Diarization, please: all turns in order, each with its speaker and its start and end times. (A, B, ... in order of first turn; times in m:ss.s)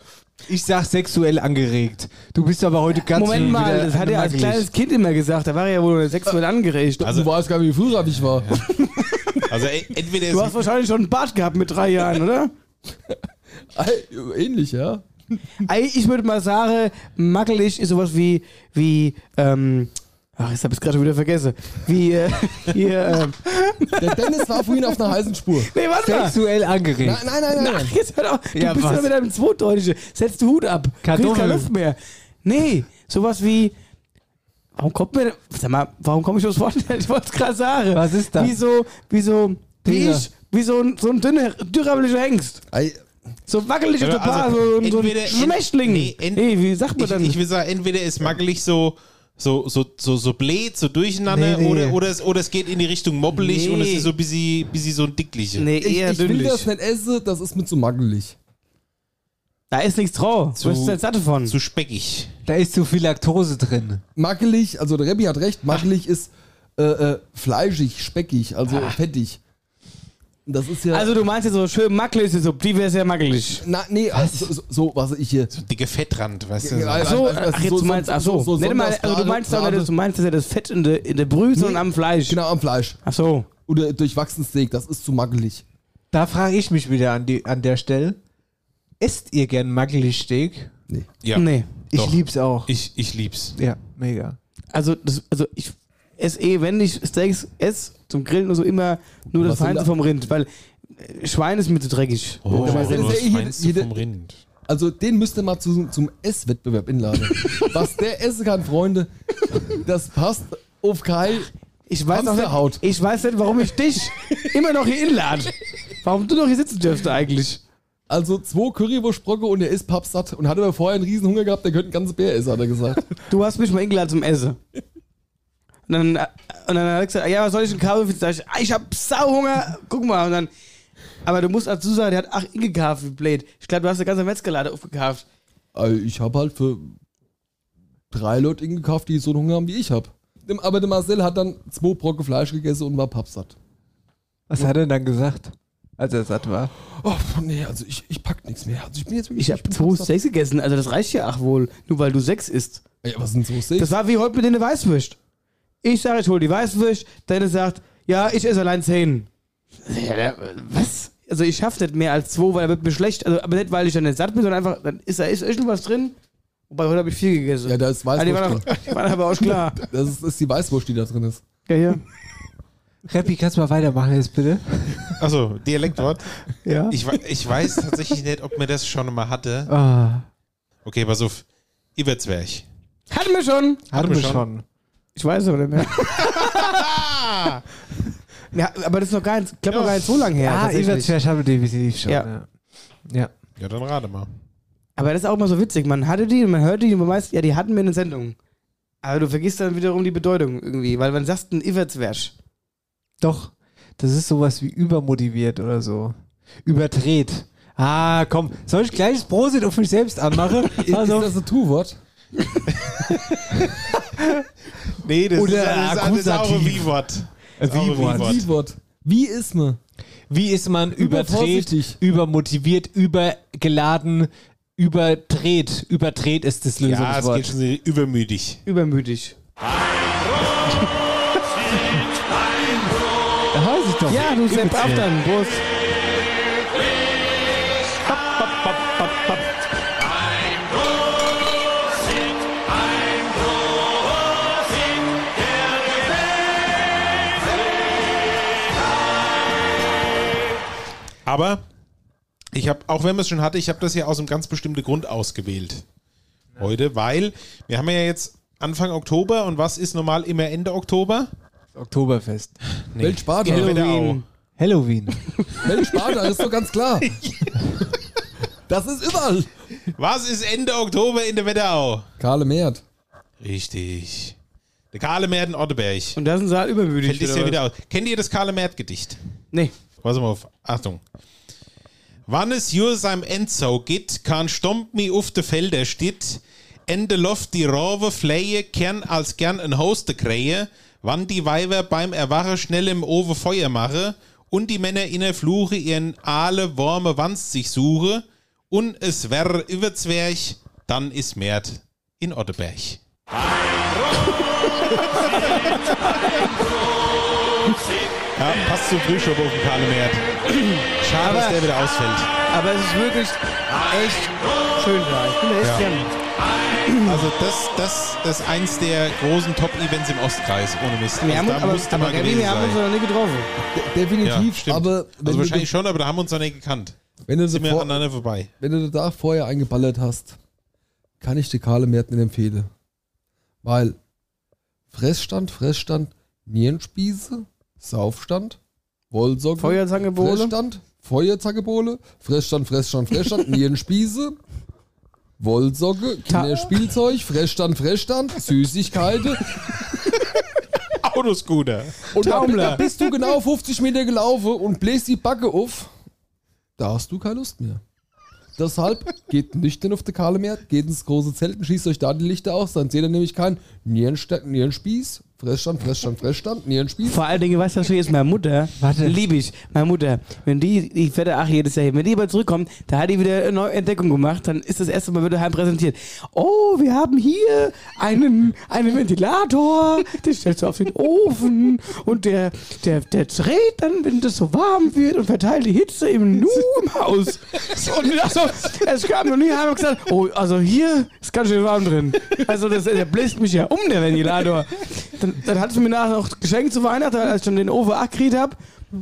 0:00.5-0:04.7 A
0:03.1-0:07.0 B
0:07.0-0:07.3 C
0:07.0-0:08.6 D
0:08.8-0:09.4 B
0:09.5-0:10.6 C
0:10.3-0:12.5 B
0:13.7-0:15.1 D
0:15.6-0:24.8 B
0:24.0-0:25.7 D
0:25.6-0:26.4 B
0:26.0-0:27.2 A
0:27.0-0:28.0 D
0:27.6-0:33.7 B
0:28.5-0:29.1 A
0:31.0-0:31.7 A
0:34.8-0:42.6 B
0:37.9-0:38.6 A
0:39.8-0:40.3 A
0:42.7-0:43.0 D
0:43.5-0:47.4 B
0:44.0-0:55.7 C
0:51.3-0:52.0 A
0:53.4-0:54.1 B
0:55.6-0:56.7 B
0:55.8-0:58.4 D
0:59.7-1:01.5 B
1:00.6-1:02.3 C
1:02.5-1:04.0 A
1:04.2-1:09.4 D
1:10.5-1:11.2 D
1:10.9-1:13.6 B
1:13.6-1:15.5 D
1:14.1-1:14.5 A
1:15.5-1:17.2 C
1:16.6-1:19.9 D
1:17.0-1:22.4 B
1:21.6-1:23.0 D
1:23.0-1:23.5 B
1:23.7-1:25.6 D
1:26.1-1:28.2 A
1:29.0-1:30.7 A
1:31.2-1:33.5 C
1:31.3-1:31.7 B
1:31.9-1:32.7 A
1:33.6-1:34.4 A
1:34.7-1:43.2 B
1:39.3-1:39.9 D
1:42.4-1:44.4 C
1:42.6-1:43.9 D
1:44.7-1:49.1 D
1:49.8-1:51.5 D
1:51.9-1:57.6 B
1:52.1-1:52.8 D
1:58.1-2:03.1 D
2:03.3-2:04.6 B
2:05.9-2:10.5 B
2:11.2-2:15.2 B
2:15.7-2:16.9 D
2:18.1-2:23.6 D
2:24.5-2:26.7 A
2:27.0-2:30.1 D
2:29.4-2:32.8 B
2:33.0-2:34.0 D
2:33.8-2:35.2 B
2:35.8-2:39.3 B
2:39.9-2:46.2 B
2:46.7-2:49.9 B
2:47.6-2:48.7 D
2:49.8-2:51.4 D
2:51.7-2:52.0 B
2:53.1-2:55.2 A
2:55.2-2:56.4 C
2:56.6-2:57.0 A
2:56.9-2:59.7 C
2:59.7-3:00.3 A
3:00.8-3:01.4 C
3:02.0-3:02.6 C
3:03.1-3:03.8 B
3:03.9-3:04.6 A
3:03.9-3:04.4 C
3:05.2-3:06.9 B
3:06.2-3:07.6 C
3:08.5-3:11.1 B
3:09.7-3:10.2 C
3:10.4-3:12.5 A
3:13.6-3:14.3 C
3:15.0-3:18.4 B
3:19.0-3:22.3 B
3:23.2-3:26.2 A
3:26.7-3:31.3 A
3:30.8-3:32.0 D
3:35.0-3:38.4 C
3:35.4-3:36.9 A
3:37.6-3:38.4 A
3:38.0-3:39.8 D
3:40.3-3:47.5 A
3:41.0-3:42.0 D
3:46.8-3:48.6 C
3:48.7-3:49.4 B
3:53.5-3:55.1 A
3:54.1-3:55.6 B
4:11.3-4:11.6 C
4:12.5-4:15.8 C
4:16.6-4:21.3 C
4:21.8-4:22.6 A
4:22.9-4:24.2 C
4:23.0-4:23.8 D
4:23.5-4:24.2 B
4:24.6-4:25.2 A
4:25.6-4:27.2 D
4:28.7-4:29.5 D
4:30.0-4:32.1 C
4:32.2-4:32.8 D
4:33.4-4:34.4 C
4:34.9-4:36.2 C
4:36.2-4:37.6 B
4:37.0-4:39.2 C
4:40.0-4:41.0 C
4:42.3-5:03.0 C
5:05.0-5:06.3 B
5:08.4-5:10.2 C
5:10.5-5:11.6 B
5:11.0-5:12.3 C
5:12.5-5:16.1 B
5:15.6-5:15.9 C
5:16.9-5:17.2 B
5:17.0-5:22.8 C
5:21.2-5:23.5 B
5:23.8-5:25.7 D
5:24.2-5:27.0 C
5:27.3-5:28.0 D
5:27.5-5:28.5 C
5:28.6-5:30.4 D
5:31.2-5:32.7 D
5:33.6-5:34.0 D
5:34.9-5:38.6 D
5:39.1-5:44.4 D
5:39.6-5:40.5 B
5:45.4-5:49.5 D
5:46.3-5:46.7 B
5:51.0-5:52.8 C
5:52.1-5:55.9 D
5:52.2-5:52.9 B
5:56.8-5:57.8 D
5:58.6-6:07.2 D
6:07.0-6:38.6 B
6:08.8-6:09.2 A